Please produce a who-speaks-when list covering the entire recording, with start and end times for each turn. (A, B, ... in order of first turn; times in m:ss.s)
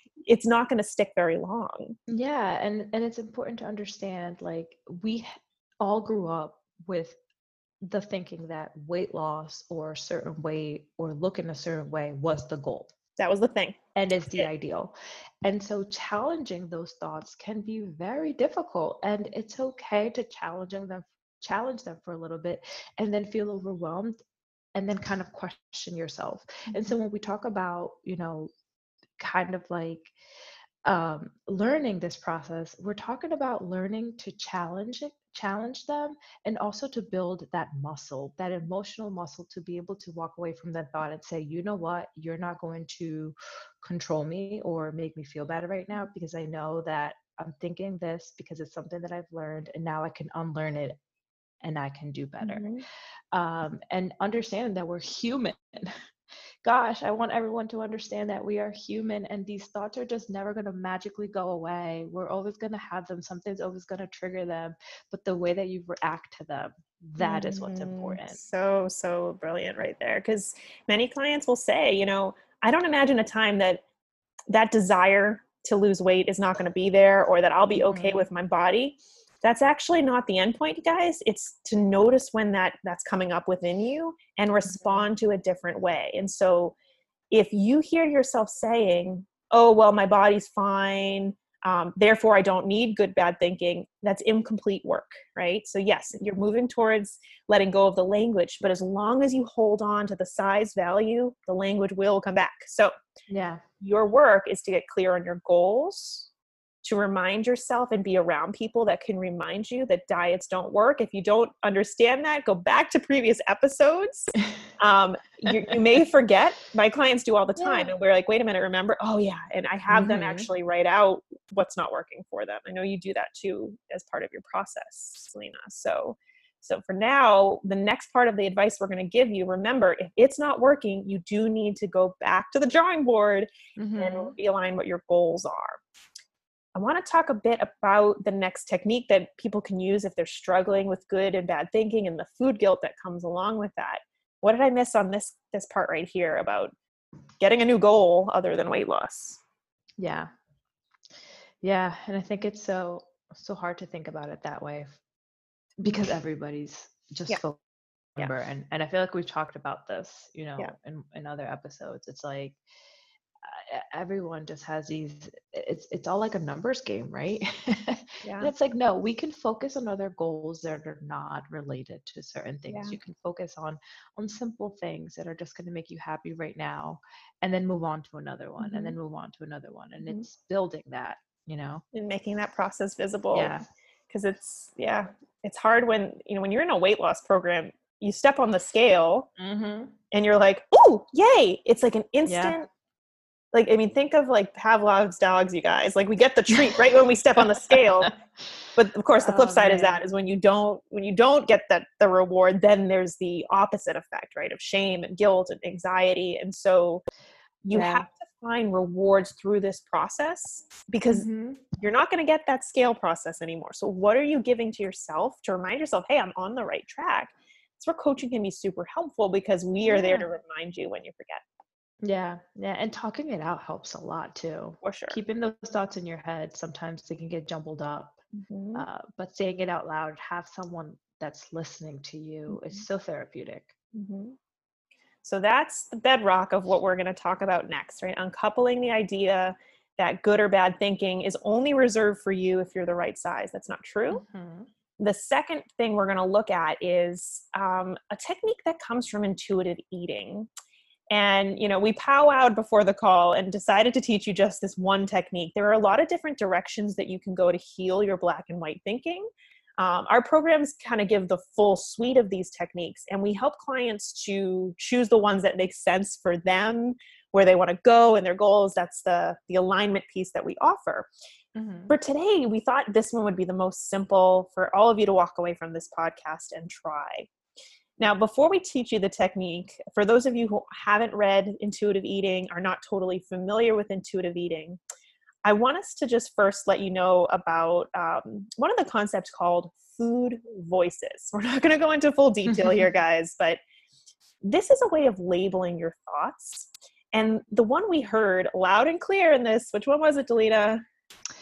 0:00.2-0:02.0 A
0:02.1-0:07.2 B
0:07.8-0:12.9 B
0:13.2-0:13.8 A
0:14.0-0:24.2 B
0:24.7-0:28.5 B
0:29.2-0:30.1 B
0:30.8-0:51.0 B
0:51.6-0:52.6 B
0:52.4-0:52.8 A
0:53.3-0:56.0 B
0:56.6-1:08.4 B
1:07.2-1:13.8 A
1:14.5-1:26.8 A
1:17.8-1:18.2 B
1:24.7-1:25.0 B
1:27.3-1:42.9 A
1:43.3-1:43.6 B
1:43.8-1:46.3 A
1:46.8-2:15.8 A
1:57.6-1:57.9 B
1:59.9-2:00.5 B
2:13.8-2:14.3 B
2:16.7-2:26.7 A
2:27.4-2:29.4 A
2:30.0-2:30.3 B
2:31.6-2:35.0 B
2:35.8-2:37.6 B
2:38.2-2:42.6 B
2:43.4-3:01.8 B
2:48.2-2:48.5 A
2:52.7-2:52.9 A
2:58.6-2:59.0 A
3:01.9-3:03.5 A
3:03.3-3:03.6 B
3:04.1-3:09.3 A
3:09.4-3:09.9 B
3:10.1-3:12.7 A
3:12.2-3:12.6 B
3:13.5-3:18.1 A
3:17.5-3:18.1 B
3:18.8-3:27.0 A
3:19.2-3:20.0 B
3:27.6-3:41.4 A
3:27.7-3:28.0 B
3:31.1-3:31.6 B
3:39.8-3:40.3 B
3:42.0-3:48.2 B
3:44.8-3:45.2 A
3:48.3-3:48.8 A
3:48.7-3:53.7 B
3:52.5-3:52.8 A
3:53.9-3:54.4 A
3:55.2-4:04.2 A
4:04.1-4:04.7 B
4:05.0-4:10.5 A
4:11.1-4:31.1 A
4:31.5-4:31.9 B
4:31.9-4:37.3 A
4:38.0-4:44.8 A
4:45.4-4:53.6 A
4:52.5-4:52.8 B
4:54.4-5:00.8 A